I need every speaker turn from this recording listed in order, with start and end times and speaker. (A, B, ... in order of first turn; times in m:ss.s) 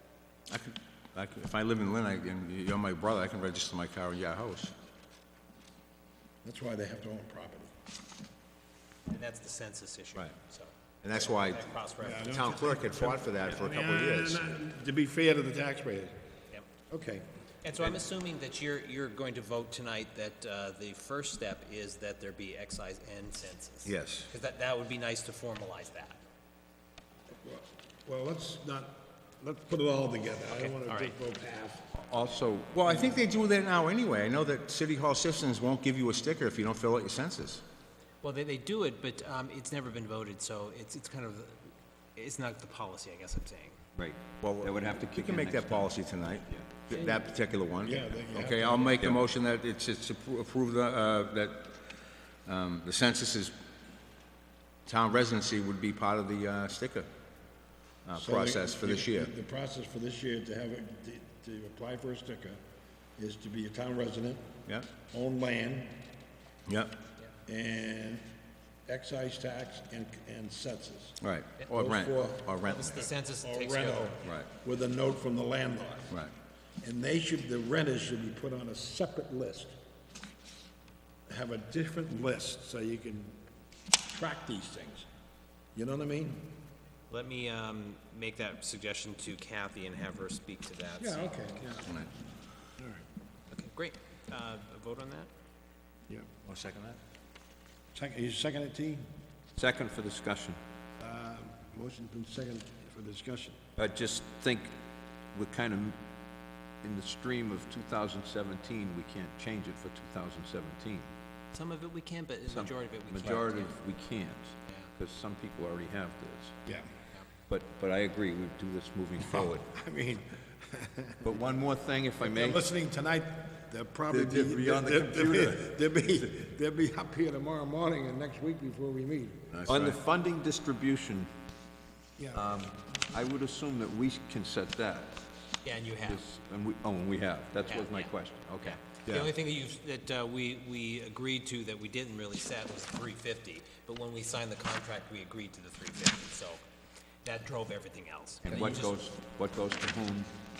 0:00.5-0:04.7 A
0:06.4-0:07.7 B
0:09.1-0:12.6 C
0:11.0-0:11.7 A
0:12.0-0:16.1 B
0:12.3-0:14.5 A
0:16.9-0:17.3 B
0:17.6-0:26.2 C
0:23.8-0:24.3 A
0:27.4-0:31.9 B
0:30.5-0:31.1 C
0:32.0-0:32.7 D
0:32.7-0:37.6 A
0:38.2-0:41.6 C
0:42.2-0:43.8 C
0:43.9-0:46.7 D
0:44.4-0:51.8 A
0:47.8-0:49.0 B
0:52.4-0:53.5 A
0:54.8-0:57.1 A
0:58.0-0:59.3 A
0:58.1-1:02.6 B
1:03.2-1:04.5 B
1:05.1-1:06.0 B
1:06.7-1:07.0 A
1:07.5-1:08.3 B
1:08.9-1:11.2 B
1:11.2-1:13.1 A
1:11.7-1:12.8 B
1:12.6-1:14.2 C
1:13.4-1:16.1 B
1:16.8-1:19.7 B
1:21.3-1:23.4 B
1:24.1-1:25.1 B
1:25.7-1:26.5 B
1:27.1-1:31.5 C
1:31.0-1:31.9 B
1:32.8-1:33.0 B
1:33.5-1:35.3 C
1:36.4-1:37.0 A
1:37.9-1:39.1 B
1:39.6-1:40.6 D
1:41.0-1:43.6 B
1:43.8-1:44.8 D
1:45.3-1:46.0 D
1:46.8-1:51.1 D
1:51.5-1:53.8 C
1:52.5-1:56.6 D
1:57.5-1:59.7 D
1:59.3-2:01.3 B
2:01.2-2:02.6 D
2:02.2-2:09.5 B
2:04.1-2:05.6 D
2:09.5-2:10.0 A
2:09.7-2:11.3 D
2:12.2-2:12.6 B
2:12.3-2:15.2 D
2:15.6-2:16.2 C
2:16.0-2:19.3 D
2:17.6-2:26.6 C
2:27.2-2:28.9 C
2:28.4-2:30.3 D